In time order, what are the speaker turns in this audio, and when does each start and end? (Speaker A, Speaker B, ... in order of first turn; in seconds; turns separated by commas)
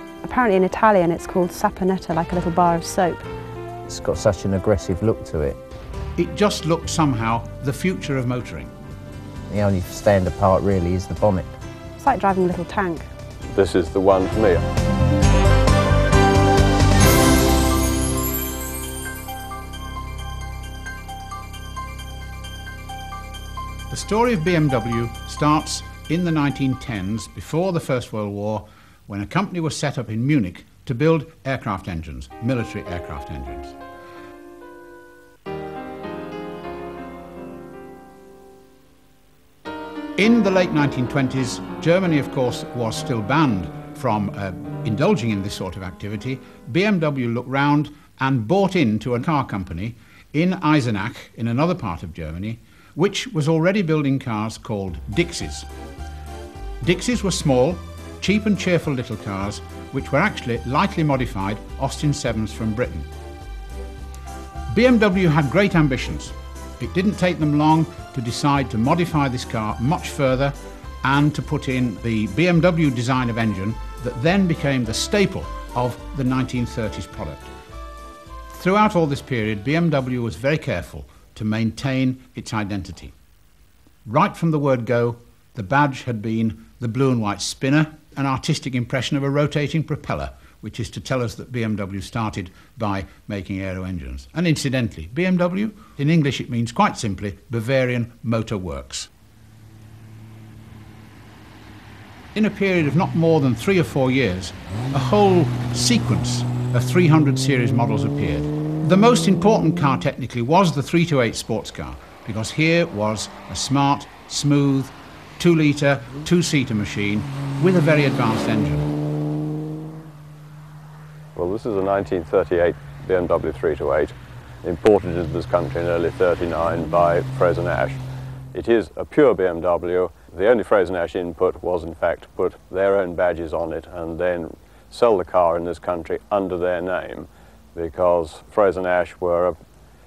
Speaker A: 0.2-3.3, Speaker B: 3.9-5.6, Speaker C: 6.2-8.7, Speaker B: 9.5-11.5, Speaker A: 12.0-13.1, Speaker D: 13.5-14.7, Speaker C: 23.9-33.8, Speaker C: 40.2-55.7, Speaker C: 56.8-63.1, Speaker C: 64.7-77.5, Speaker C: 78.5-83.1, Speaker C: 84.0-99.1, Speaker C: 102.3-118.9, Speaker D: 121.3-128.0, Speaker D: 128.5-139.6